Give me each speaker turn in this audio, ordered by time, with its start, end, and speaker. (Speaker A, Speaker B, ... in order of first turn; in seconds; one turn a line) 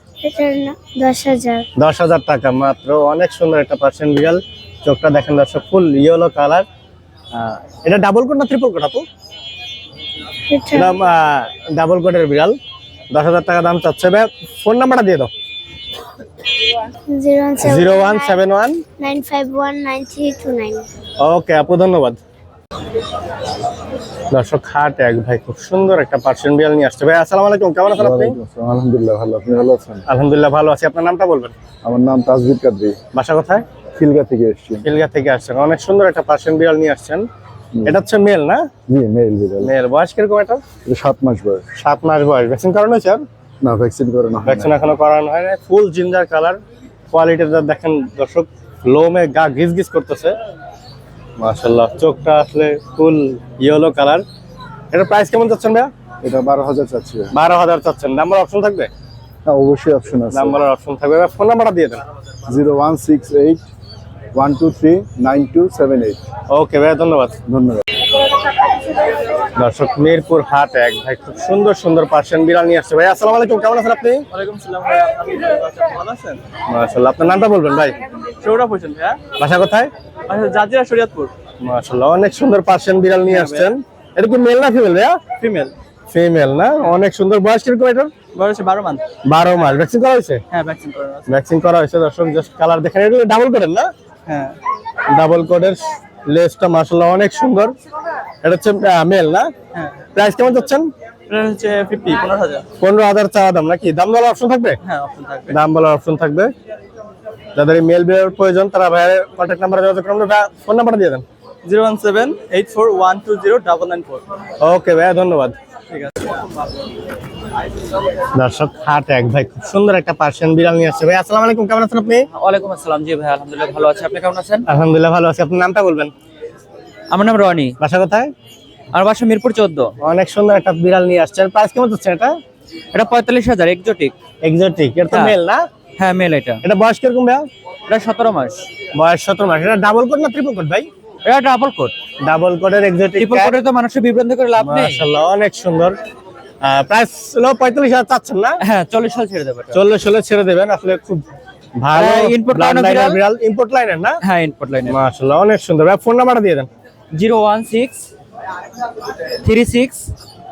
Speaker A: 0.2-1.7
Speaker B: 1.8-6.7
Speaker B: 7.3-9.0
Speaker A: 10.5-10.9
Speaker B: 10.8-12.5
Speaker B: 13.1-15.3
Speaker A: 17.1-18.4
Speaker B: 17.6-18.8
Speaker A: 19.0-20.9
Speaker B: 21.2-22.2
Speaker B: 24.3-28.4
Speaker C: 28.0-30.0
Speaker B: 30.1-31.5
Speaker C: 31.8-33.0
Speaker B: 33.1-33.6
Speaker C: 34.0-34.9
Speaker B: 34.8-37.2
Speaker B: 37.9-38.7
Speaker C: 38.9-39.7
Speaker B: 39.6-40.6
Speaker C: 40.9-41.7
Speaker B: 41.8-43.2
Speaker C: 43.6-44.7
Speaker B: 44.4-46.6
Speaker B: 47.1-50.4
Speaker B: 51.4-54.2
Speaker B: 54.9-55.9
Speaker C: 56.2-57.3
Speaker B: 57.3-58.9
Speaker C: 59.4-60.6
Speaker B: 60.3-62.0
Speaker C: 62.5-63.6
Speaker C: 64.3-66.2
Speaker B: 66.5-67.3
Speaker C: 67.5-67.8
Speaker B: 69.5-74.2
Speaker D: 74.3-76.4
Speaker B: 76.7-78.0
Speaker D: 78.4-79.2
Speaker B: 79.4-79.9
Speaker D: 80.3-81.3
Speaker B: 81.6-85.2
Speaker D: 83.2-83.7
Speaker D: 85.4-85.7
Speaker B: 86.1-88.1
Speaker D: 88.3-89.0
Speaker B: 89.2-90.4
Speaker D: 90.5-91.3
Speaker B: 91.3-93.9
Speaker D: 94.3-94.5
Speaker B: 95.1-97.7
Speaker B: 98.4-99.5
Speaker B: 100.1-100.9
Speaker D: 101.3-102.7
Speaker B: 102.8-104.8
Speaker D: 104.8-105.5
Speaker B: 105.5-106.5
Speaker B: 107.5-111.2
Speaker D: 111.6-114.2
Speaker B: 114.6-115.5
Speaker B: 118.3-122.3
Speaker E: 122.3-124.6
Speaker B: 124.7-126.1
Speaker E: 127.1-127.8
Speaker B: 127.8-128.3
Speaker E: 128.9-129.9
Speaker B: 130.0-132.3
Speaker E: 132.9-134.1
Speaker B: 134.4-135.6
Speaker E: 136.0-136.6
Speaker B: 136.6-137.5
Speaker E: 137.9-138.7
Speaker B: 138.9-140.9
Speaker E: 141.2-141.9
Speaker B: 142.2-143.6
Speaker E: 143.2-145.0
Speaker B: 144.6-145.9
Speaker B: 146.6-148.6
Speaker E: 148.6-149.7
Speaker B: 149.7-151.2
Speaker B: 151.8-154.2
Speaker E: 151.9-153.2
Speaker E: 154.2-154.9
Speaker B: 154.9-156.7
Speaker E: 157.1-158.1
Speaker E: 159.4-160.1